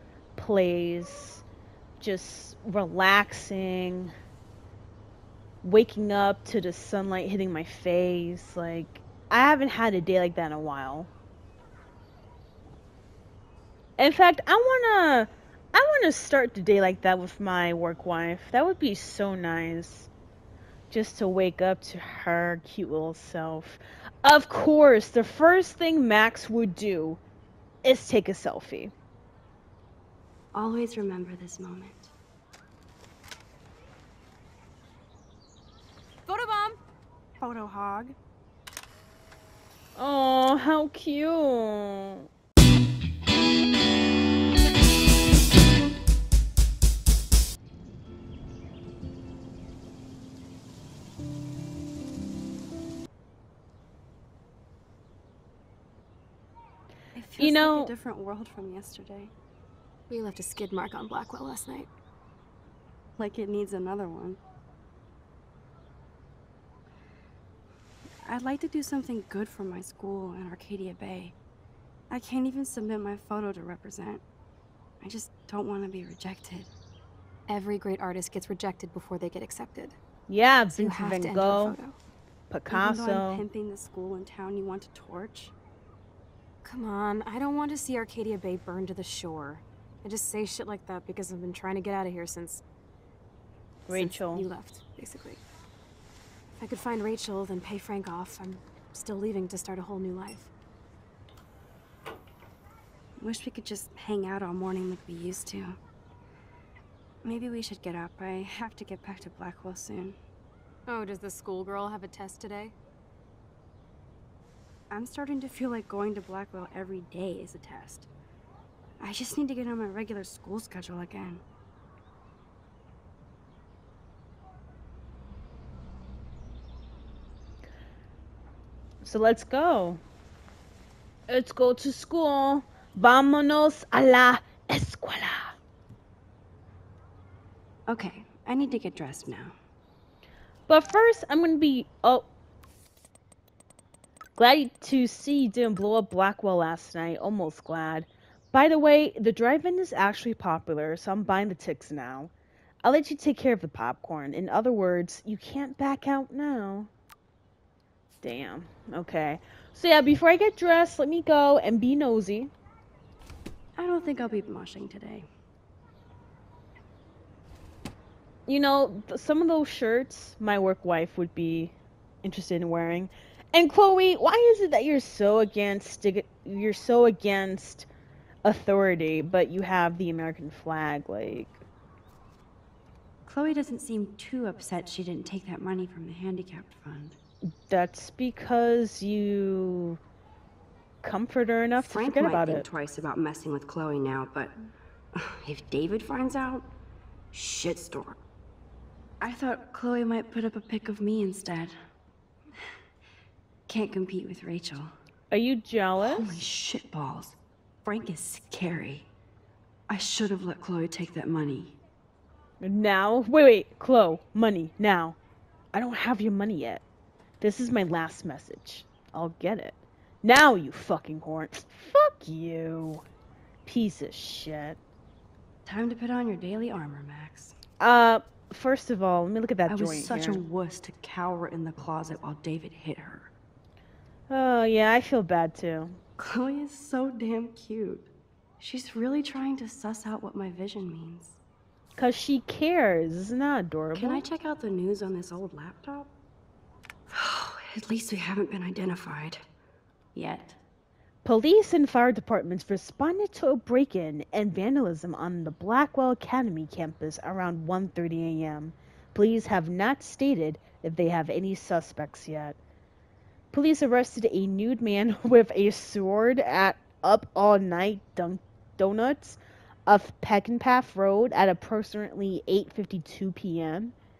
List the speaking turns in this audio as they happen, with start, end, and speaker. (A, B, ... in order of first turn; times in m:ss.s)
0:00.4-0:01.4 A
0:02.0-0:04.1 A
0:05.6-0:11.1 A
0:14.0-0:20.1 A
0:20.9-0:27.2 A
0:27.8-0:28.9 A
0:30.5-0:32.1 B
0:36.3-0:36.8 C
0:37.4-0:38.2 B
0:40.0-0:42.3 A
0:57.1-0:59.3 B
0:57.4-0:57.9 A
1:00.1-1:01.9 C
1:03.2-1:04.4 B
1:08.2-1:11.4 B
1:12.1-1:14.2 B
1:15.0-1:16.7 B
1:17.5-1:20.0 C
1:20.3-1:21.8 A
1:20.7-1:22.0 C
1:22.5-1:23.4 A
1:22.7-1:25.5 B
1:26.6-1:32.6 C
1:33.9-1:34.4 A
1:33.9-1:35.4 C
1:36.6-1:40.5 C
1:43.2-1:45.8 B
1:47.2-1:50.2 B
1:50.9-1:52.8 C
1:54.9-1:58.1 B
1:59.0-2:01.4 B
2:09.0-2:10.0 A
2:11.3-2:15.6 A
2:17.9-2:19.6 B
2:20.7-2:22.3 A
2:24.4-2:32.3 A
2:32.8-2:36.9 A
2:38.2-2:42.5 A
2:43.8-2:45.3 B
2:48.5-2:57.9 A
2:58.4-3:01.6 A
3:03.2-3:07.2 B
3:07.5-3:10.0 A
3:11.0-3:12.7 A
3:11.8-3:14.5 B
3:15.1-3:16.7 B
3:17.3-3:18.2 B
3:19.2-3:21.8 B
3:23.7-3:24.9 B
3:25.3-3:26.4 A
3:26.0-3:29.1 B
3:29.9-3:31.8 B
3:32.6-3:35.2 A
3:35.7-3:36.8 A
3:37.4-3:43.0 A
3:43.7-3:44.8 A
3:45.6-3:47.6 B
3:47.8-3:50.4 A
3:49.7-3:53.3 B
3:54.3-3:56.0 A
3:56.2-4:01.4 B
4:02.0-4:04.2 A
4:04.0-4:06.1 B
4:07.1-4:09.4 B
4:10.2-4:10.6 B
4:11.2-4:22.6 A
4:23.5-4:33.9 A